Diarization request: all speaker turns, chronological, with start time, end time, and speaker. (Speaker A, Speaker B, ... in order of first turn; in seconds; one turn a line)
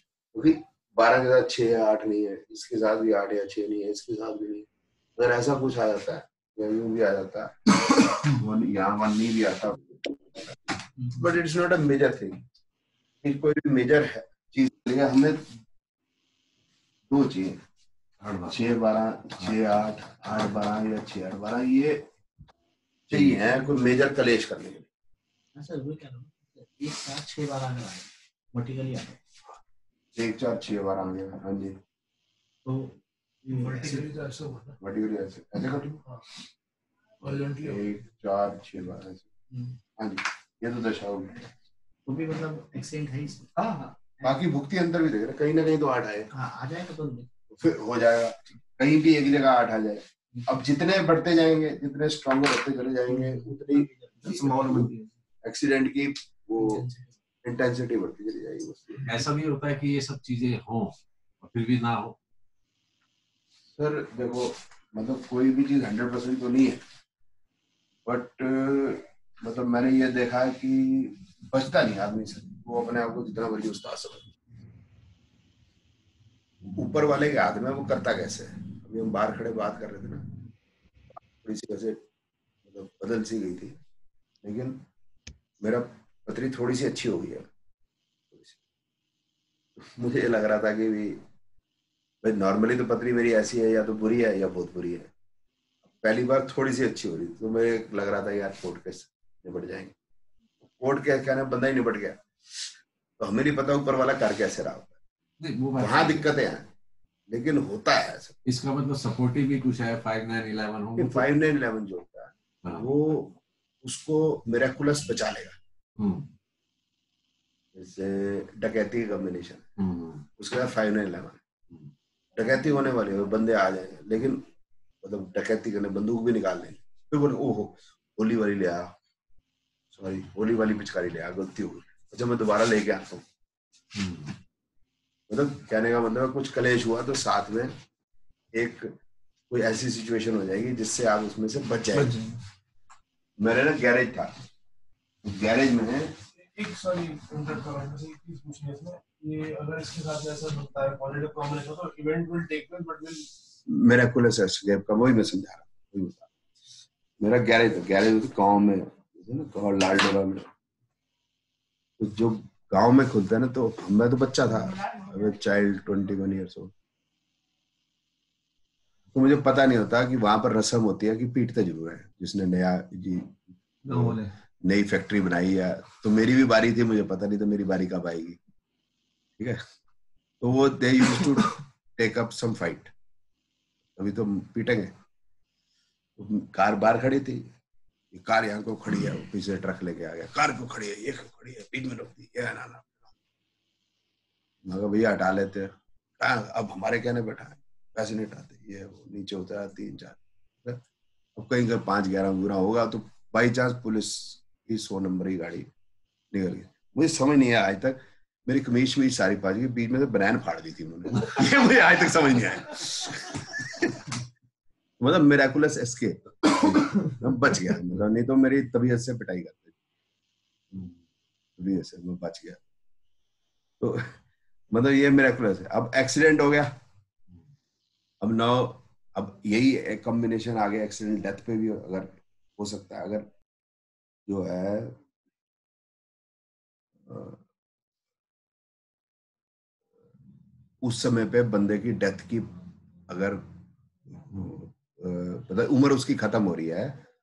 Speaker A: 0.3-7.7
Speaker A: 8.2-10.4
Speaker A: 11.1-12.4
Speaker A: 13.2-15.5
Speaker A: 17.1-17.6
Speaker B: 18.2-18.6
Speaker A: 18.5-22.0
Speaker A: 23.1-24.9
Speaker C: 25.6-29.2
Speaker A: 30.1-31.8
Speaker C: 32.7-32.9
Speaker C: 33.5-34.1
Speaker D: 33.6-34.8
Speaker A: 34.8-36.0
Speaker D: 37.2-38.0
Speaker A: 37.6-39.3
Speaker A: 40.0-41.4
Speaker C: 42.1-43.5
Speaker A: 43.6-46.3
Speaker C: 46.3-47.3
Speaker A: 47.5-56.8
Speaker C: 53.1-54.9
Speaker C: 56.6-57.1
Speaker A: 57.4-59.2
Speaker B: 59.1-62.2
Speaker A: 63.8-66.8
Speaker A: 68.0-74.3
Speaker A: 76.7-80.3
Speaker A: 81.3-82.0
Speaker A: 82.7-83.8
Speaker A: 84.4-84.8
Speaker A: 85.6-87.5
Speaker A: 88.3-88.6
Speaker A: 89.8-91.2
Speaker A: 92.2-95.1
Speaker A: 95.8-100.0
Speaker A: 100.8-102.2
Speaker A: 103.2-105.0
Speaker B: 105.4-106.3
Speaker A: 105.8-106.7
Speaker A: 107.3-108.4
Speaker B: 108.5-111.3
Speaker A: 111.0-115.6
Speaker B: 116.0-116.3
Speaker A: 117.7-119.7
Speaker B: 119.8-120.2
Speaker A: 120.4-121.4
Speaker A: 122.3-124.4
Speaker A: 125.0-128.9
Speaker A: 129.9-133.3
Speaker B: 133.9-134.3
Speaker A: 135.3-137.8
Speaker A: 138.5-138.9
Speaker A: 139.5-142.2
Speaker A: 143.4-144.3
Speaker A: 145.2-146.1
Speaker D: 146.4-153.3
Speaker A: 153.7-156.3
Speaker A: 157.2-160.5
Speaker A: 162.0-166.7
Speaker A: 169.1-178.4
Speaker A: 180.4-182.9
Speaker A: 184.0-184.9
Speaker A: 186.2-187.5
Speaker A: 188.1-193.1
Speaker A: 194.6-200.8
Speaker A: 201.4-205.7
Speaker A: 206.3-214.0
Speaker A: 215.0-219.8
Speaker A: 221.6-222.6
Speaker A: 223.8-224.2
Speaker A: 224.7-226.7
Speaker A: 228.2-233.3
Speaker A: 234.3-235.0
Speaker A: 237.1-237.4
Speaker A: 240.8-243.4
Speaker A: 244.1-247.0